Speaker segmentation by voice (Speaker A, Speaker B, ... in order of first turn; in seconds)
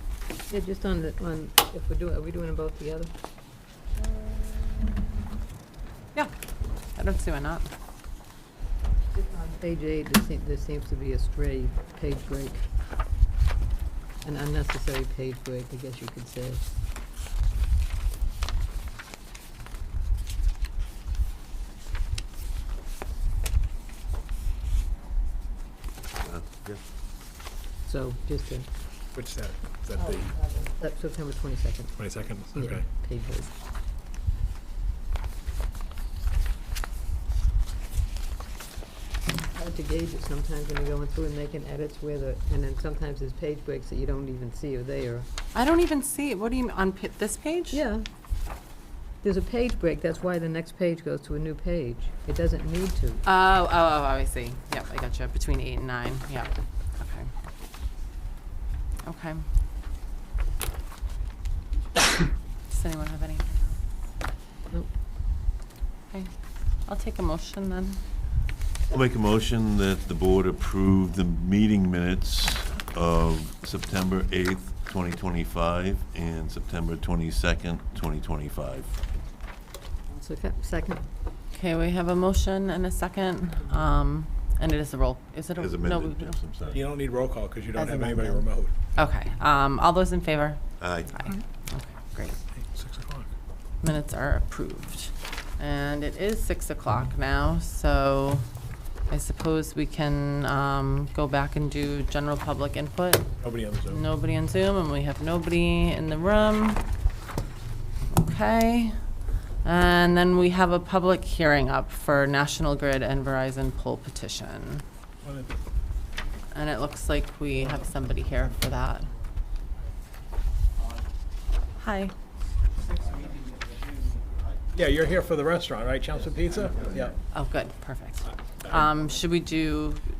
Speaker A: 0.5-3.1, 9.2-12.6, 14.2-16.7, 27.9-28.7, 30.0-33.5, 39.5-45.3, 47.7-48.0, 49.2-53.2, 80.1-81.0
Speaker B: 7.0-7.7, 45.5-47.8, 53.2-57.3, 59.0-59.4, 62.7-63.8, 66.1-68.0, 81.5-86.4, 89.0-92.4, 93.8-98.5, 99.1-103.3, 103.8-106.8, 108.1-109.0, 109.6-114.8, 116.5-119.1, 121.8-122.1, 127.3-130.0
Speaker C: 26.2-26.8, 68.9-79.0, 85.6-86.8, 90.8-91.2
Speaker D: 29.1-30.3, 32.0-32.9, 86.7-88.7, 92.6-93.3, 103.4-104.0, 115.2-115.5, 124.7-127.2